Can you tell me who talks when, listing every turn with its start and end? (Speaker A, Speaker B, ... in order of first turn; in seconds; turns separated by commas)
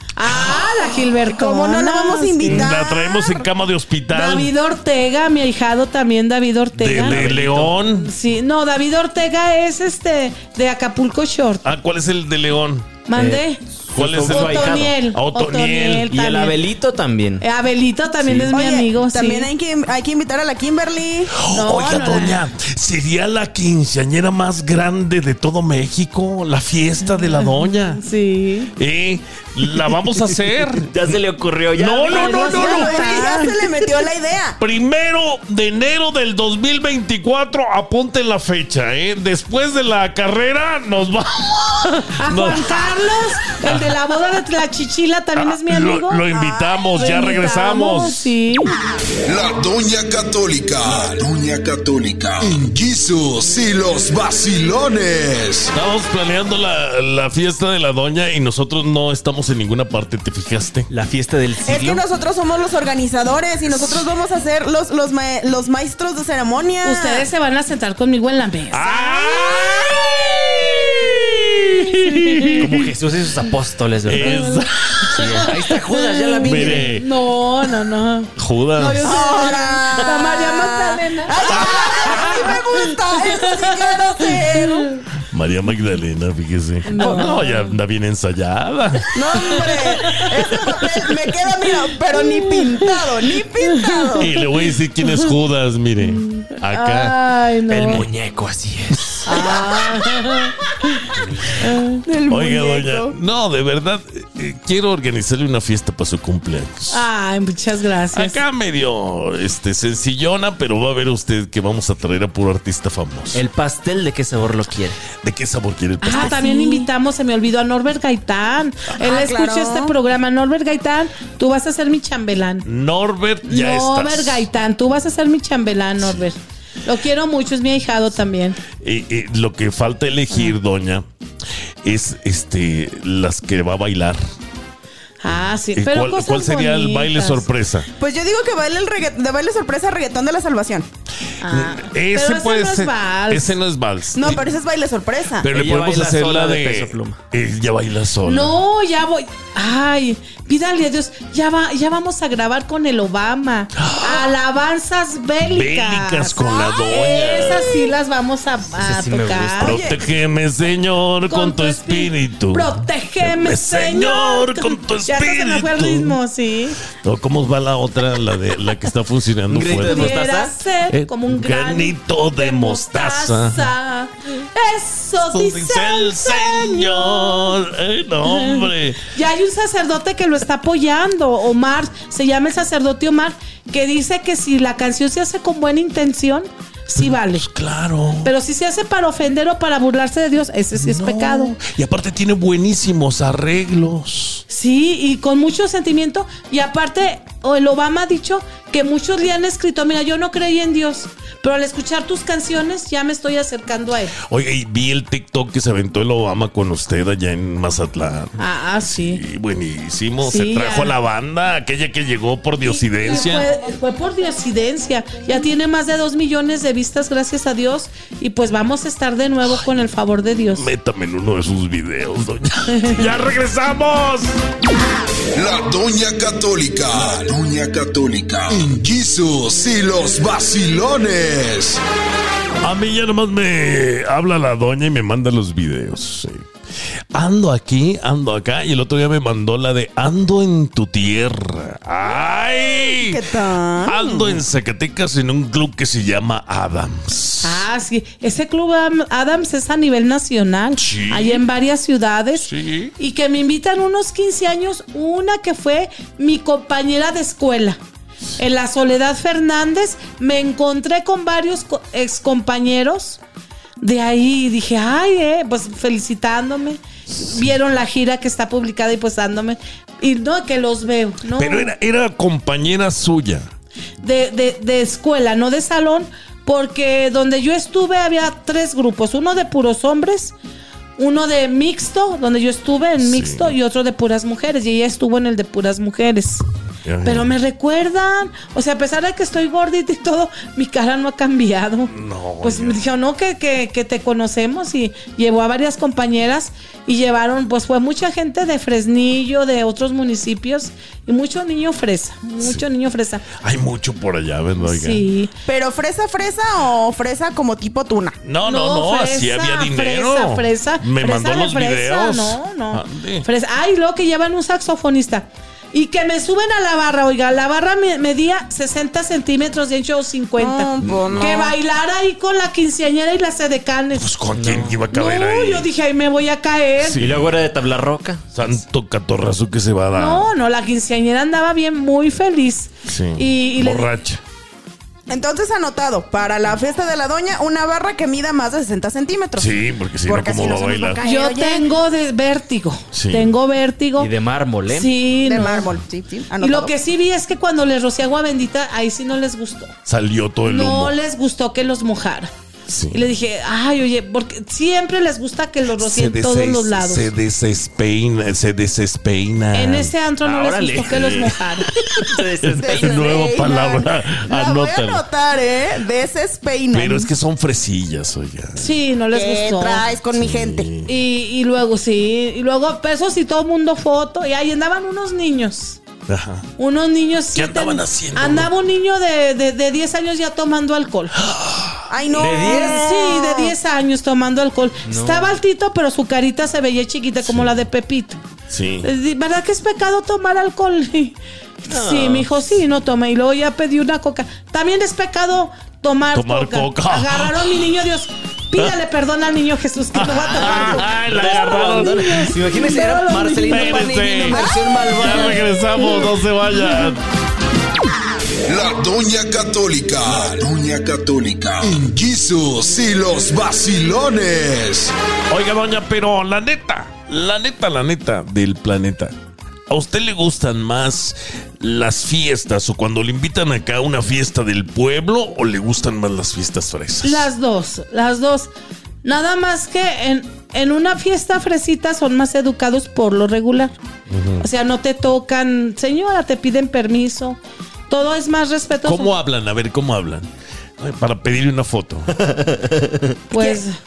Speaker A: 0.2-2.8, Speaker B: 0.2-0.8, Speaker C: 1.2-3.5, Speaker B: 2.4-4.5, Speaker A: 4.1-7.2, Speaker B: 6.8-8.1, Speaker D: 7.0-7.8, Speaker A: 8.0-11.7, Speaker B: 11.6-13.0, Speaker A: 13.1-13.6, Speaker D: 13.2-15.0, Speaker B: 13.9-16.1, Speaker A: 14.2-16.6, Speaker D: 16.1-17.4, Speaker A: 17.4-19.5, Speaker D: 18.2-18.6, Speaker C: 18.5-21.4, Speaker B: 21.4-28.0, Speaker A: 21.5-22.5, Speaker A: 27.3-28.7, Speaker B: 28.8-30.9, Speaker D: 30.8-32.4, Speaker B: 31.8-33.3, Speaker C: 32.1-34.6, Speaker A: 32.1-33.6, Speaker B: 34.6-44.0, Speaker A: 42.2-46.2, Speaker B: 45.4-48.4, Speaker C: 46.3-46.9, Speaker A: 46.9-48.7, Speaker E: 49.2-55.7, Speaker B: 55.7-60.9, Speaker D: 60.9-62.0, Speaker C: 61.6-67.3, Speaker B: 63.7-64.0, Speaker A: 66.8-69.9, Speaker B: 68.7-72.9, Speaker A: 71.6-72.8, Speaker D: 72.6-74.5, Speaker B: 74.0-75.6, Speaker A: 74.2-85.0, Speaker D: 75.1-76.9, Speaker B: 76.4-77.1, Speaker B: 78.4-79.2, Speaker C: 79.0-84.9, Speaker B: 81.4-82.4, Speaker B: 85.3-90.7, Speaker A: 86.9-87.8, Speaker C: 87.0-87.3, Speaker C: 89.1-94.3, Speaker A: 90.0-90.3, Speaker A: 92.1-93.1, Speaker A: 93.6-94.3, Speaker B: 94.2-97.2, Speaker A: 95.0-95.3, Speaker A: 96.0-98.1, Speaker D: 97.7-99.8, Speaker A: 99.2-102.0, Speaker D: 101.1-101.5, Speaker C: 102.0-103.2, Speaker B: 102.3-107.1, Speaker A: 106.9-108.4, Speaker B: 108.1-113.4, Speaker D: 113.3-115.0, Speaker B: 115.2-116.5, Speaker A: 116.0-122.7, Speaker C: 116.2-116.8, Speaker C: 119.0-119.9, Speaker B: 122.7-124.5, Speaker A: 123.5-128.6, Speaker B: 128.8-131.1, Speaker A: 130.3-130.6, Speaker B: 131.8-134.2, Speaker A: 135.2-137.5, Speaker B: 135.8-137.9, Speaker C: 138.0-140.9, Speaker A: 141.4-143.6, Speaker B: 141.5-144.5, Speaker C: 144.1-145.5, Speaker B: 145.4-148.6, Speaker D: 145.5-147.2, Speaker A: 148.2-159.8, Speaker B: 153.8-154.3, Speaker B: 155.4-157.7, Speaker C: 157.0-157.7, Speaker D: 158.8-159.9, Speaker B: 159.6-166.2, Speaker C: 159.7-159.9, Speaker A: 161.3-166.8, Speaker B: 167.0-170.2, Speaker D: 169.5-170.6, Speaker A: 169.7-177.6, Speaker B: 170.9-173.7, Speaker B: 175.2-179.0, Speaker A: 178.2-187.4, Speaker B: 187.0-188.3, Speaker A: 188.2-191.5, Speaker B: 190.8-194.4, Speaker A: 194.5-204.2, Speaker B: 204.2-213.5, Speaker A: 208.4-209.2, Speaker A: 210.2-210.9, Speaker A: 212.7-220.7, Speaker B: 220.5-224.3, Speaker A: 222.7-223.2, Speaker E: 225.3-231.8, Speaker B: 232.6-236.5, Speaker B: 237.1-243.2, Speaker C: 242.6-244.4, Speaker B: 243.8-247.6, Speaker A: 247.4-257.8, Speaker B: 250.8-251.4, Speaker B: 252.4-252.9, Speaker A: 258.4-263.2, Speaker A: 263.8-271.7, Speaker B: 267.1-267.4, Speaker B: 271.4-273.5, Speaker A: 274.0-280.4, Speaker A: 281.0-286.4, Speaker B: 283.0-283.5, Speaker B: 286.9-287.3, Speaker A: 287.0-303.2, Speaker B: 291.9-292.8, Speaker B: 303.3-305.1, Speaker A: 304.6-305.3, Speaker C: 305.5-308.2, Speaker B: 308.2-313.3, Speaker A: 308.4-324.1, Speaker C: 320.4-321.5, Speaker B: 320.8-321.4, Speaker B: 323.9-325.7, Speaker D: 324.3-324.8, Speaker A: 324.9-327.0, Speaker B: 326.8-327.4, Speaker D: 327.0-328.3, Speaker B: 328.3-330.3, Speaker A: 329.9-333.9, Speaker B: 332.9-334.2, Speaker C: 335.1-339.5, Speaker B: 339.4-341.0, Speaker C: 340.1-341.7, Speaker A: 341.0-344.1, Speaker B: 342.9-343.3, Speaker D: 344.0-344.9, Speaker A: 344.7-345.7, Speaker C: 345.2-346.7, Speaker A: 346.4-349.7, Speaker B: 349.9-350.9, Speaker A: 350.4-352.3, Speaker B: 352.7-353.0, Speaker A: 352.9-357.1, Speaker B: 355.8-359.9, Speaker A: 359.5-361.7, Speaker D: 360.2-361.3, Speaker B: 360.8-365.0, Speaker D: 361.9-363.2, Speaker C: 362.6-367.1, Speaker B: 366.7-368.7, Speaker A: 368.6-369.9, Speaker C: 369.1-370.7, Speaker B: 370.1-370.9, Speaker A: 370.9-375.8, Speaker B: 376.1-376.5, Speaker A: 376.6-381.1, Speaker B: 377.4-378.5, Speaker B: 381.2-381.8, Speaker C: 381.9-383.6, Speaker D: 382.1-383.1, Speaker A: 382.2-388.2, Speaker D: 384.9-385.4, Speaker B: 387.2-387.5, Speaker B: 388.5-388.9, Speaker A: 388.8-403.9, Speaker D: 391.7-392.4, Speaker B: 396.1-397.7, Speaker B: 399.9-402.2, Speaker D: 400.3-405.4, Speaker B: 403.5-407.0, Speaker C: 404.3-405.1, Speaker A: 405.8-406.9, Speaker E: 408.5-414.9, Speaker B: 415.3-419.1, Speaker B: 419.7-427.3, Speaker A: 427.0-428.5, Speaker A: 429.0-433.7, Speaker B: 434.1-434.4, Speaker A: 434.4-439.1, Speaker B: 438.8-442.3, Speaker D: 442.6-443.0, Speaker A: 443.3-443.8, Speaker C: 443.3-443.6